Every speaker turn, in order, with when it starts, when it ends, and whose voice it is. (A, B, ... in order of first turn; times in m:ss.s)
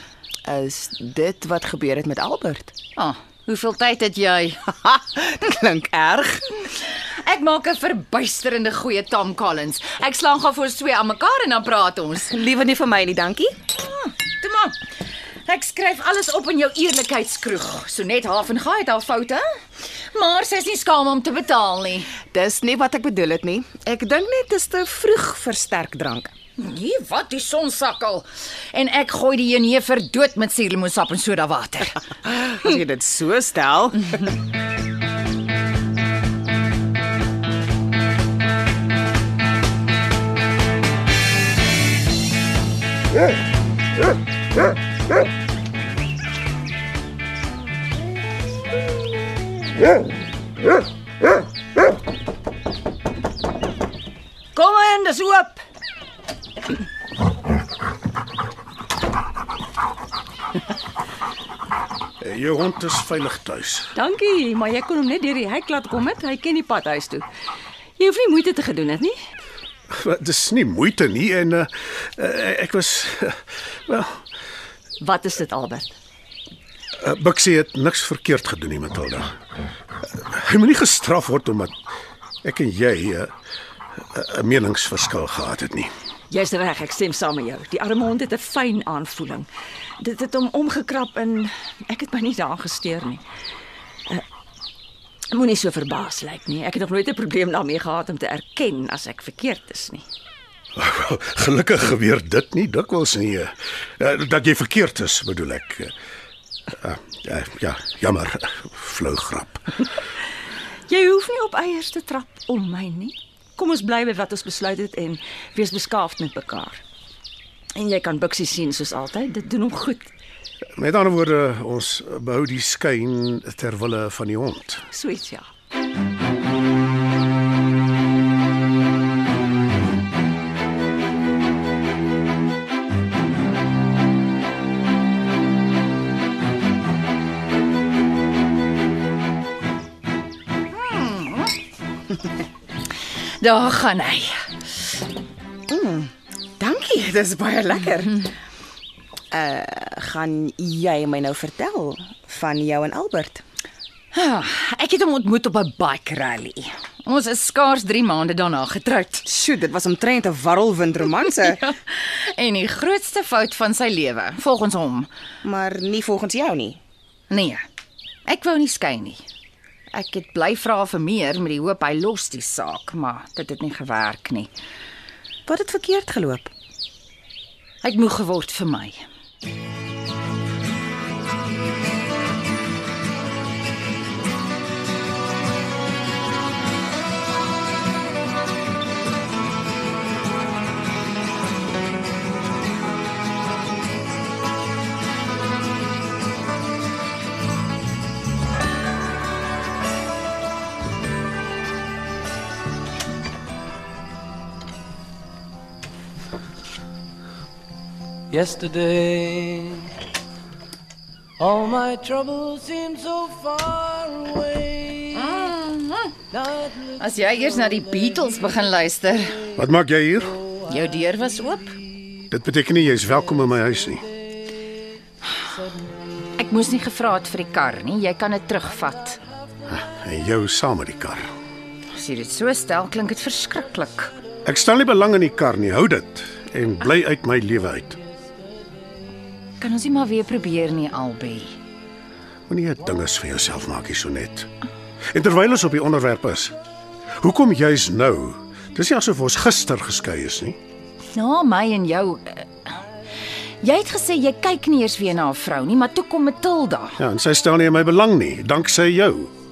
0:00.4-0:02.7 A
0:03.0-0:04.7 B
0:04.9-0:06.4 A
0:06.7-0:12.3 B
0:12.2-0:13.6 A
0:13.7-0:14.8 B
0:15.4-0:22.1 B
0:22.1-0:26.3 A
0:26.6-0:32.0 B
0:32.2-0:34.2 A
0:54.6-0:55.5 B
0:54.7-0:55.4 C
1:02.2-1:03.9 D
1:04.0-1:07.3 C
1:08.0-1:09.2 C
1:09.9-1:14.2 D
1:15.0-1:15.9 C
1:17.0-1:19.3 D
1:20.0-1:21.8 D
1:22.4-1:23.3 D
1:24.1-1:25.9 D
1:26.3-1:33.2 C
1:35.3-1:40.1 C
1:40.8-1:45.9 D
1:46.7-1:49.8 D
1:50.9-1:56.8 C
1:57.8-2:00.1 C
2:00.8-2:04.9 D
2:04.9-2:05.5 C
2:20.7-2:21.5 B
2:23.2-2:24.7 B
2:25.7-2:28.3 A
2:29.3-2:33.4 A
2:34.1-2:39.3 B
2:39.3-2:41.7 A
2:41.5-2:45.1 B
2:45.4-2:46.8 A
2:47.3-2:47.6 B
2:48.3-2:49.2 B
2:49.9-2:54.5 B
2:55.5-2:56.5 A
2:57.8-2:59.1 B
3:28.3-3:29.9 E
3:31.4-3:34.5 E
3:35.1-3:36.1 B
3:37.0-3:39.4 B
3:39.6-3:40.4 D
3:40.7-3:41.8 B
3:42.3-3:44.1 D
3:46.4-3:49.2 B
3:49.7-3:51.3 D
3:51.9-3:54.1 B
3:54.4-3:58.0 D
3:59.6-4:01.6 B
4:02.5-4:04.5 D
4:05.1-4:06.6 D
4:07.2-4:10.6 D
4:11.1-4:12.8 B
4:13.6-4:17.0 B
4:17.0-4:19.3 D